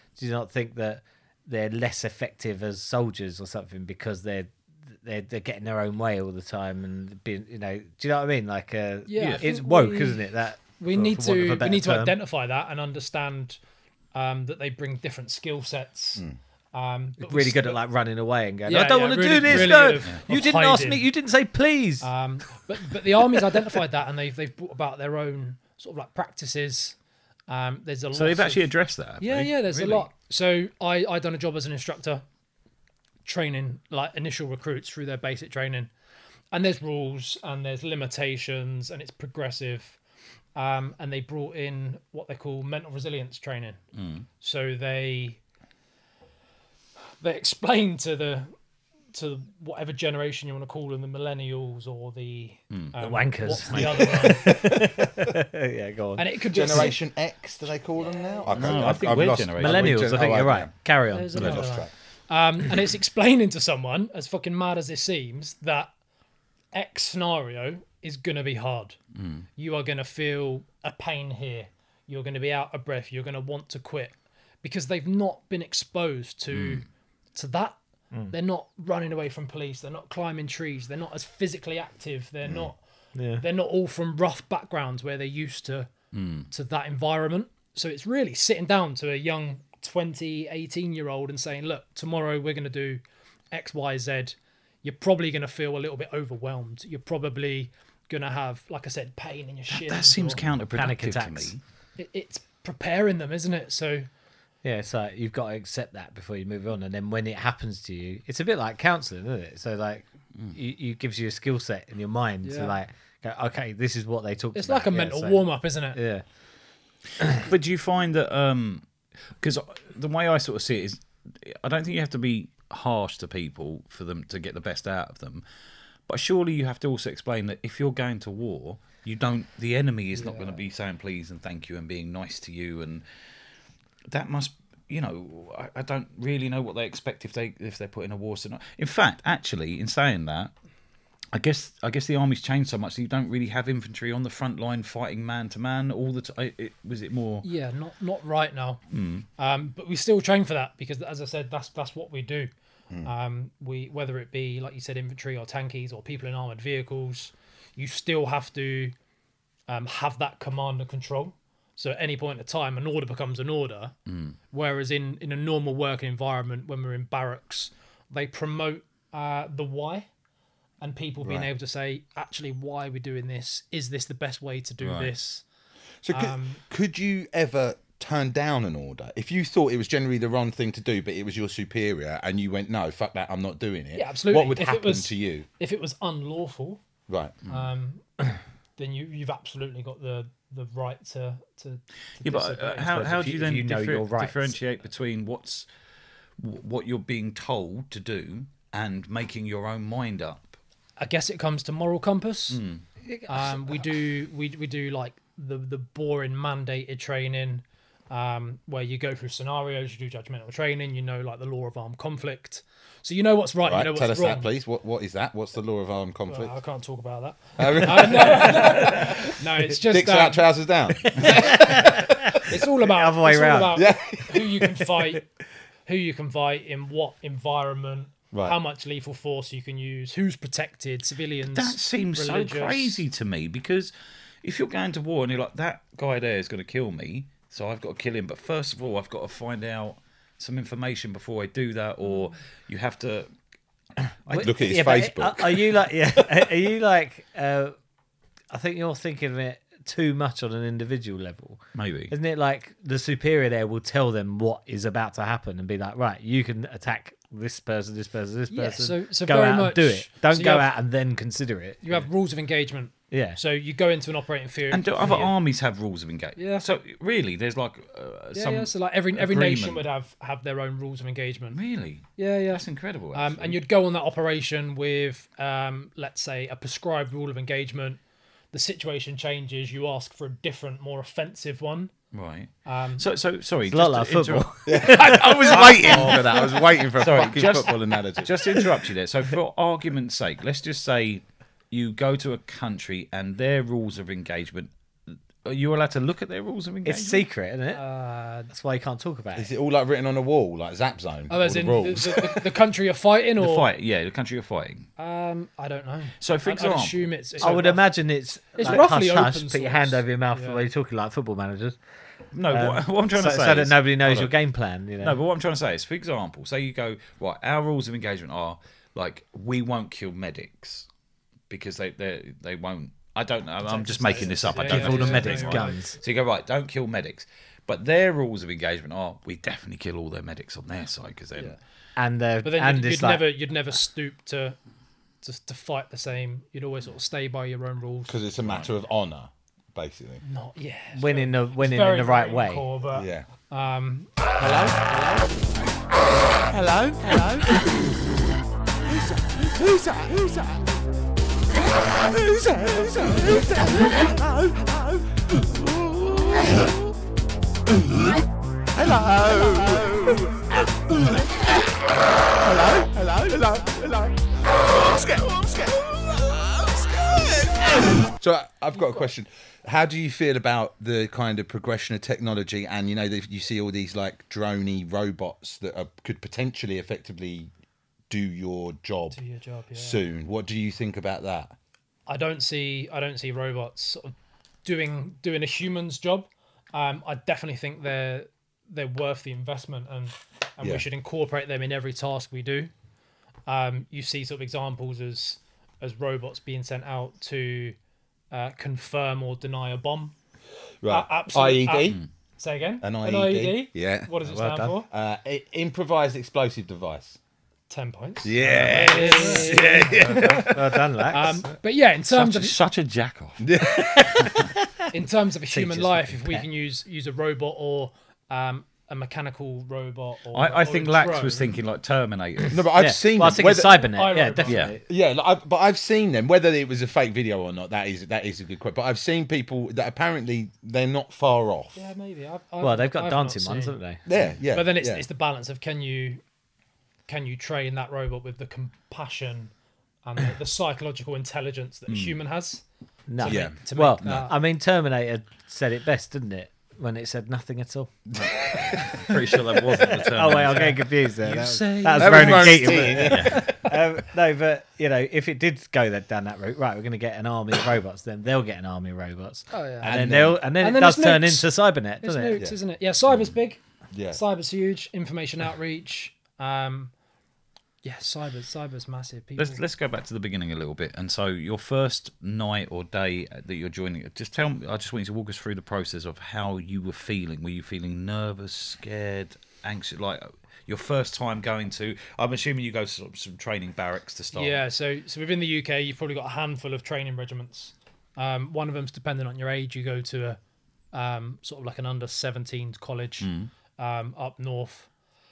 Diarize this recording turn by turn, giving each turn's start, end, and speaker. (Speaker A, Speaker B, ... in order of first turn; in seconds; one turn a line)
Speaker A: 0.2-12.2
Speaker B: 9.1-13.6
Speaker B: 14.1-17.8
Speaker A: 17.2-22.1
Speaker B: 18.7-21.1
Speaker C: 19.4-20.2
Speaker B: 22.0-27.0
Speaker B: 27.5-28.7
Speaker C: 28.1-30.1
Speaker B: 29.2-32.2
Speaker B: 33.2-35.9
Speaker B: 36.5-40.0
Speaker B: 40.6-43.8
Speaker C: 44.0-44.3
Speaker B: 44.4-45.4
Speaker B: 47.2-48.5
Speaker B: 49.1-54.8
Speaker A: 53.0-56.9
Speaker B: 56.2-57.0
Speaker D: 56.5-60.7
Speaker C: 58.5-60.3
Speaker A: 58.7-61.8
Speaker B: 61.1-65.9
Speaker D: 61.3-61.9
Speaker B: 66.7-69.0
Speaker C: 69.2-69.5
Speaker B: 69.6-77.8
Speaker C: 76.5-76.8
Speaker B: 78.3-82.8
Speaker D: 82.5-82.7
Speaker A: 83.2-83.4
Speaker B: 83.4-85.9
Speaker C: 86.1-86.5
Speaker B: 86.5-100.4
Speaker C: 99.7-101.6
Speaker A: 100.7-101.5
Speaker B: 102.0-104.1
Speaker A: 104.6-116.2
Speaker B: 112.4-112.8
Speaker B: 114.5-116.0
Speaker C: 117.2-118.8
Speaker C: 119.4-125.4
Speaker C: 126.1-133.0
Speaker B: 130.2-130.6
Speaker C: 134.1-140.5
Speaker C: 141.3-147.5
Speaker B: 147.4-148.8
Speaker C: 148.9-149.3
Speaker B: 149.4-152.5
Speaker B: 153.0-158.9
Speaker B: 159.7-163.9
Speaker C: 164.1-164.4
Speaker B: 164.5-170.1
Speaker B: 170.8-175.4
Speaker D: 171.2-171.5
Speaker C: 174.8-175.1
Speaker D: 176.0-185.5
Speaker B: 176.1-176.6
Speaker B: 183.9-186.8
Speaker D: 187.1-187.4
Speaker B: 187.5-188.1
Speaker B: 188.8-193.1
Speaker C: 192.2-195.7
Speaker A: 192.8-194.6
Speaker C: 196.4-200.6
Speaker B: 201.0-202.6
Speaker C: 202.5-202.8
Speaker A: 203.1-203.8
Speaker B: 203.3-214.5
Speaker D: 213.7-216.6
Speaker B: 216.3-220.5
Speaker D: 217.6-222.4
Speaker A: 221.2-223.8
Speaker B: 221.2-225.2
Speaker D: 223.7-224.7
Speaker B: 225.9-233.0
Speaker D: 228.3-228.6
Speaker C: 231.5-233.9
Speaker C: 234.4-243.3
Speaker A: 244.3-247.8
Speaker D: 244.3-245.7
Speaker A: 248.5-262.1
Speaker C: 251.8-252.1
Speaker B: 258.5-260.7
Speaker B: 261.8-265.3
Speaker A: 263.1-263.4
Speaker C: 264.7-269.8
Speaker B: 266.4-266.7
Speaker B: 268.3-271.6
Speaker C: 271.5-273.6
Speaker B: 272.2-278.0
Speaker B: 278.5-281.9
Speaker C: 282.1-297.3
Speaker B: 282.7-283.1
Speaker A: 283.7-286.4
Speaker D: 284.7-288.6
Speaker A: 296.8-297.8
Speaker B: 297.7-298.5
Speaker A: 298.5-299.5
Speaker D: 299.4-302.4
Speaker B: 301.3-303.7
Speaker C: 303.4-304.9
Speaker B: 305.0-307.9
Speaker C: 306.2-307.1
Speaker A: 307.4-311.8
Speaker B: 308.6-310.7
Speaker C: 312.3-314.3
Speaker A: 312.5-315.2
Speaker C: 315.0-320.9
Speaker C: 321.5-331.6
Speaker B: 323.6-325.8
Speaker A: 324.1-326.0
Speaker A: 332.0-333.3
Speaker B: 332.4-334.6
Speaker B: 335.2-338.2
Speaker D: 338.1-340.2
Speaker B: 340.2-344.1
Speaker A: 340.9-342.7
Speaker D: 342.9-343.3
Speaker E: 344.4-345.4
Speaker E: 346.5-347.6
Speaker E: 348.9-350.6
Speaker E: 352.1-356.7
Speaker E: 358.8-361.2
Speaker E: 362.4-364.1
Speaker E: 364.7-367.8
Speaker D: 368.1-377.5
Speaker D: 378.1-379.2
Speaker B: 379.1-380.0
Speaker D: 379.7-381.6
Speaker B: 382.1-392.7
Speaker B: 393.5-397.8
Speaker B: 398.3-400.1
Speaker D: 400.8-402.0
Speaker B: 400.9-404.9
Speaker D: 402.8-404.1
Speaker A: 404.2-404.8
Speaker D: 404.9-407.2
Speaker B: 407.7-412.6
Speaker D: 408.2-410.8
Speaker A: 408.4-411.5
Speaker C: 412.1-413.5
Speaker D: 413.4-414.5
Speaker A: 413.8-414.6
Speaker B: 414.9-421.5
Speaker A: 415.5-416.5
Speaker C: 420.3-422.6
Speaker D: 422.5-423.9
Speaker A: 422.7-424.8
Speaker B: 423.5-424.7
Speaker C: 424.5-424.8
Speaker D: 424.9-431.8
Speaker B: 431.8-433.8
Speaker A: 432.6-434.0
Speaker D: 434.1-435.1
Speaker B: 434.5-436.2
Speaker B: 437.1-439.5
Speaker B: 440.1-442.6
Speaker C: 441.9-442.1
Speaker A: 443.1-462.4
Speaker B: 443.2-444.4
Speaker D: 443.3-444.2
Speaker D: 448.1-448.9
Speaker C: 448.6-453.5
Speaker B: 450.4-450.8
Speaker D: 451.9-453.7
Speaker B: 459.5-466.9
Speaker D: 459.8-460.4
Speaker D: 463.9-464.2
Speaker B: 467.8-469.6
Speaker C: 469.4-484.6
Speaker B: 484.3-490.4
Speaker B: 490.9-494.9
Speaker C: 493.2-493.5